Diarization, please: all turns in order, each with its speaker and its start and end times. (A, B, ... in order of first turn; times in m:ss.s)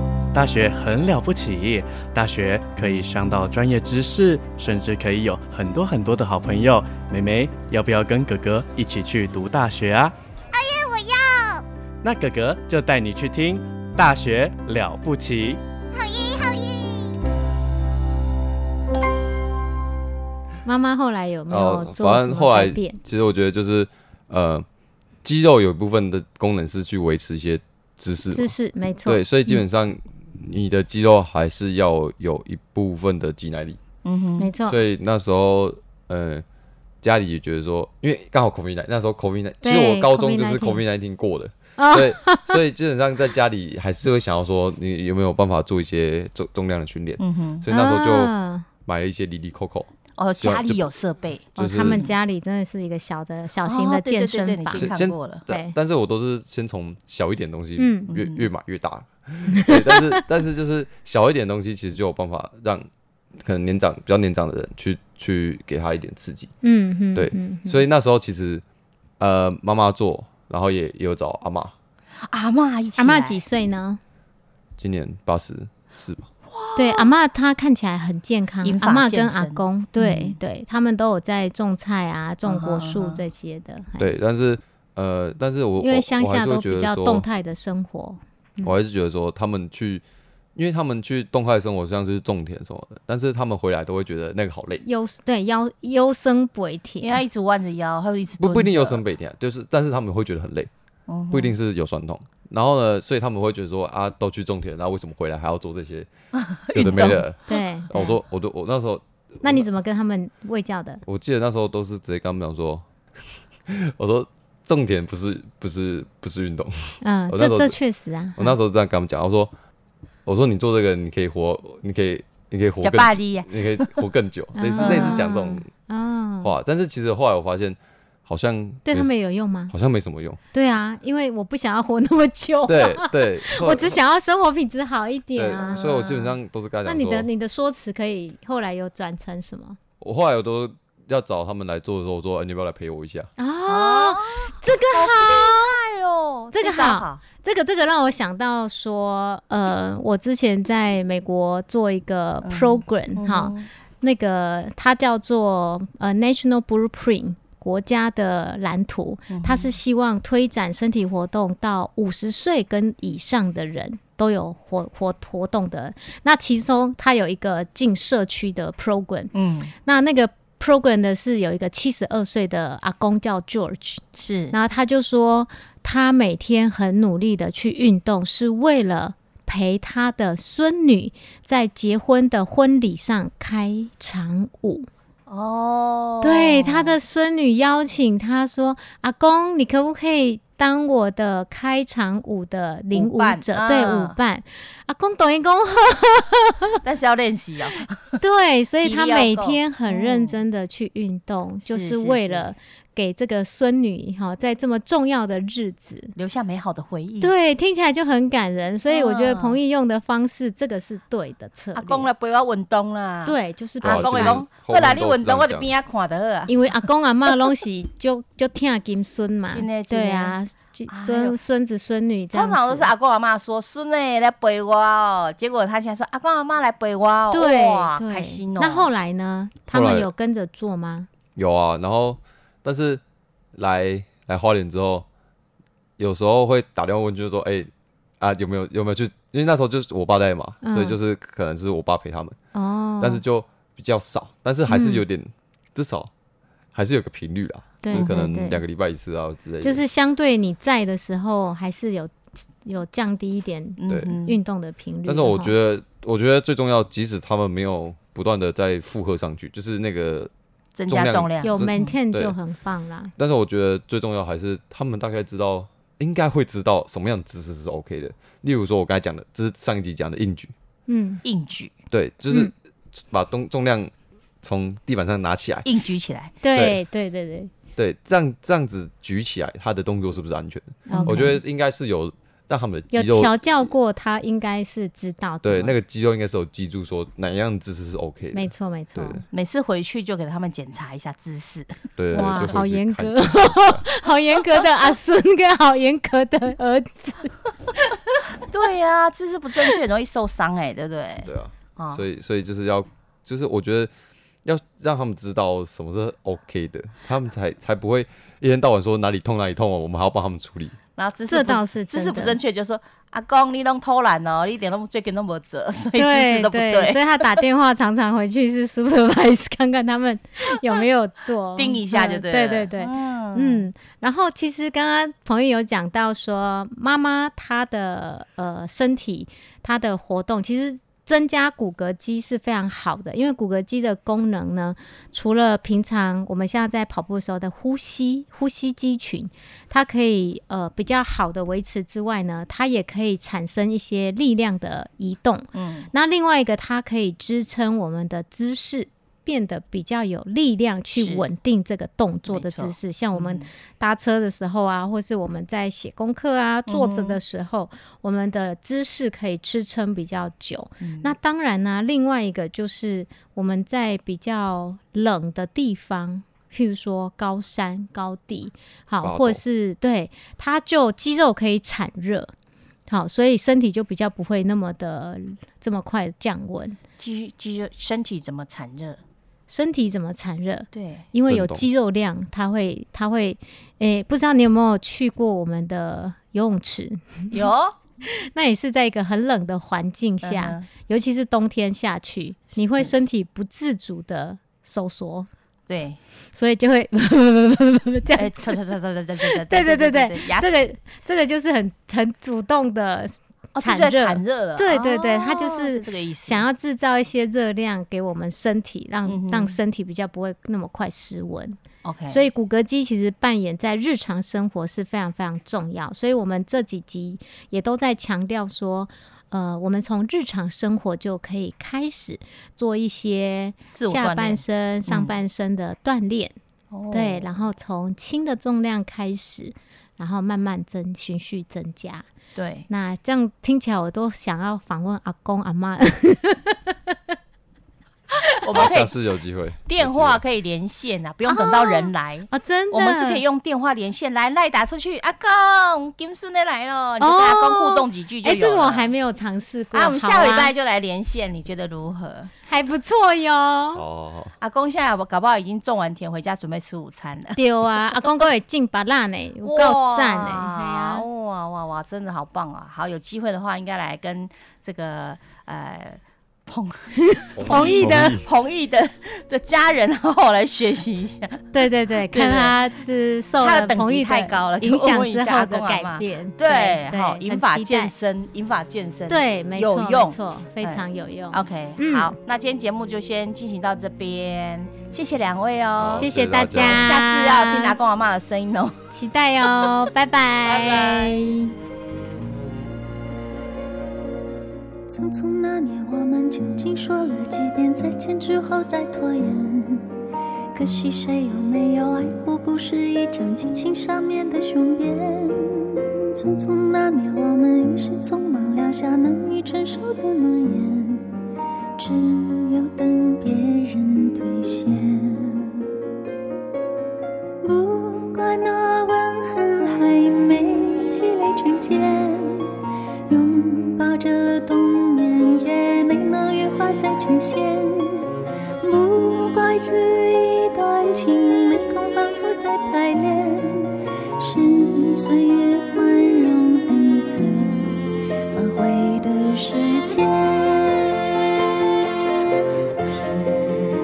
0:00.3-0:10.1 A
0:10.5-0:11.6 B
0:12.0-0:15.6 A
0:15.9-0:17.1 B
0:20.6-0:23.0 C
0:21.5-0:24.6 D
0:25.2-0:28.5 D
0:28.3-0:29.2 C
0:29.0-0:33.8 D
0:34.0-0:34.5 E
0:34.4-0:34.8 C
0:34.7-0:36.4 D
0:37.0-0:48.3 D
0:39.6-0:40.8 C
0:41.8-0:42.6 C
0:47.2-0:47.6 E
0:47.7-0:48.7 C
0:48.8-0:50.8 D
0:50.2-0:52.1 E
0:51.6-0:54.9 C
0:51.6-0:52.0 D
0:53.6-0:55.4 E
0:54.7-1:02.9 D
0:55.5-0:55.7 C
0:57.8-0:58.1 C
0:58.1-0:58.5 E
0:59.6-1:00.2 C
1:03.4-1:06.5 D
1:06.6-1:07.8 C
1:07.1-1:08.6 D
1:09.2-1:11.7 D
1:12.3-1:13.4 E
1:13.0-1:14.0 C
1:14.8-1:16.3 D
1:16.5-1:17.1 E
1:16.8-1:24.1 C
1:18.6-1:20.4 E
1:22.4-1:23.2 E
1:24.0-1:27.2 D
1:25.8-1:28.7 C
1:28.6-1:30.0 D
1:30.5-1:34.8 D
1:34.8-1:37.2 C
1:37.0-1:39.0 E
1:38.4-1:40.7 D
1:41.1-1:41.5 E
1:41.3-1:46.1 D
1:46.3-1:47.2 E
1:46.7-1:49.6 D
1:47.5-1:48.2 C
1:49.4-1:51.0 C
1:51.0-1:52.9 D
1:53.7-1:57.8 D
1:57.0-1:58.5 C
1:58.4-1:59.5 D
2:00.2-2:05.7 D
2:02.8-2:04.0 E
2:04.6-2:06.5 C
2:04.8-2:05.2 E
2:06.4-2:09.1 D
2:08.8-2:09.7 C
2:09.7-2:10.4 D
2:10.5-2:15.9 C
2:12.7-2:14.0 D
2:15.4-2:17.3 D
2:15.7-2:16.3 E
2:16.8-2:19.8 C
2:20.0-2:23.3 D
2:23.4-2:25.7 C
2:23.7-2:27.2 E
2:26.5-2:49.3 C
2:32.4-2:33.7 E
2:39.3-2:39.7 E
2:49.3-2:49.7 E
2:49.8-3:04.9 C
2:54.2-2:54.6 E
3:05.3-3:07.0 E
3:06.2-3:16.8 C
3:12.9-3:14.2 E
3:16.8-3:18.2 E
3:18.2-3:26.1 C
3:18.8-3:20.4 E
3:21.6-3:22.5 E
3:26.2-3:27.3 E
3:27.2-3:32.1 C
3:28.9-3:29.6 E
3:31.7-3:36.5 E
3:33.2-3:34.4 C
3:33.8-3:35.7 D
3:36.5-3:42.9 C
3:39.5-3:40.3 E
3:40.9-3:41.4 E
3:42.3-3:48.9 E
3:47.3-3:51.1 C
3:49.7-3:50.1 D
3:51.4-3:53.0 D
3:53.5-3:55.0 D
3:56.0-4:02.4 D
4:00.6-4:01.0 C
4:02.5-4:03.2 C
4:03.0-4:06.1 D
4:04.7-4:05.0 C
4:06.7-4:09.8 D
4:07.8-4:08.6 C
4:09.6-4:15.5 C
4:13.8-4:14.4 E
4:13.9-4:14.2 D
4:15.0-4:20.3 D
4:20.8-4:21.9 E
4:20.9-4:22.4 D
4:21.4-4:23.1 C
4:23.2-4:30.5 D
4:30.9-4:31.2 C
4:31.2-4:31.7 E
4:31.9-4:35.7 D
4:35.6-4:36.3 E
4:36.4-4:37.5 C
4:36.5-4:36.8 D
4:37.8-4:43.4 D
4:40.9-4:41.4 C
4:40.9-4:41.3 E
4:42.9-4:45.7 C
4:45.4-4:49.2 D
4:48.3-4:49.2 C
4:49.3-4:51.8 E
4:52.0-4:53.8 D
4:52.1-4:57.3 C
4:58.4-5:02.0 E
5:01.2-5:03.9 D
5:04.4-5:10.8 D
5:11.0-5:17.4 E
5:11.3-5:12.4 C
5:16.0-6:12.3 C
5:21.6-5:23.6 E
5:45.5-5:45.9 E
5:51.0-5:51.2 E
5:52.3-5:53.5 E
5:56.7-5:57.2 E
6:00.8-6:01.1 E
6:09.0-6:09.4 D
6:12.9-6:16.8 C
6:17.0-6:19.0 E
6:19.5-6:27.3 C
6:20.7-6:21.0 E
6:21.3-6:21.7 D
6:27.3-6:27.7 E
6:28.3-6:35.3 C
6:30.2-6:30.7 E
6:35.7-6:36.0 E
6:36.3-6:38.6 C
6:38.1-6:40.6 E
6:39.2-6:51.6 C
6:43.5-6:46.5 E
6:49.1-6:49.6 E
6:51.8-6:52.2 E
6:52.1-7:06.4 C
7:03.7-7:05.2 E
7:06.7-7:07.2 E
7:06.9-7:12.1 C
7:12.3-7:12.7 E
7:12.7-7:16.9 C
7:18.4-7:18.9 E
7:18.5-7:20.2 D
7:19.7-7:28.9 E
7:21.3-7:23.2 C
7:27.0-7:30.5 C
7:29.7-7:32.3 E
7:32.5-7:33.8 C
7:33.7-7:34.3 D
7:34.4-7:37.4 E
7:37.4-7:41.0 C
7:39.4-7:51.5 E
7:47.1-7:48.2 C
7:47.4-7:48.2 D
7:51.5-7:57.9 C
7:52.1-7:52.6 E
7:53.4-8:08.8 E
7:59.1-8:02.1 C
8:05.8-8:06.9 D
8:06.0-8:07.8 C
8:08.9-8:11.5 C
8:10.4-8:11.2 E
8:14.9-8:19.8 F
8:20.5-8:31.1 F
8:31.8-8:35.6 F
8:37.4-8:42.5 F
8:43.1-8:48.1 F
8:48.6-9:01.3 F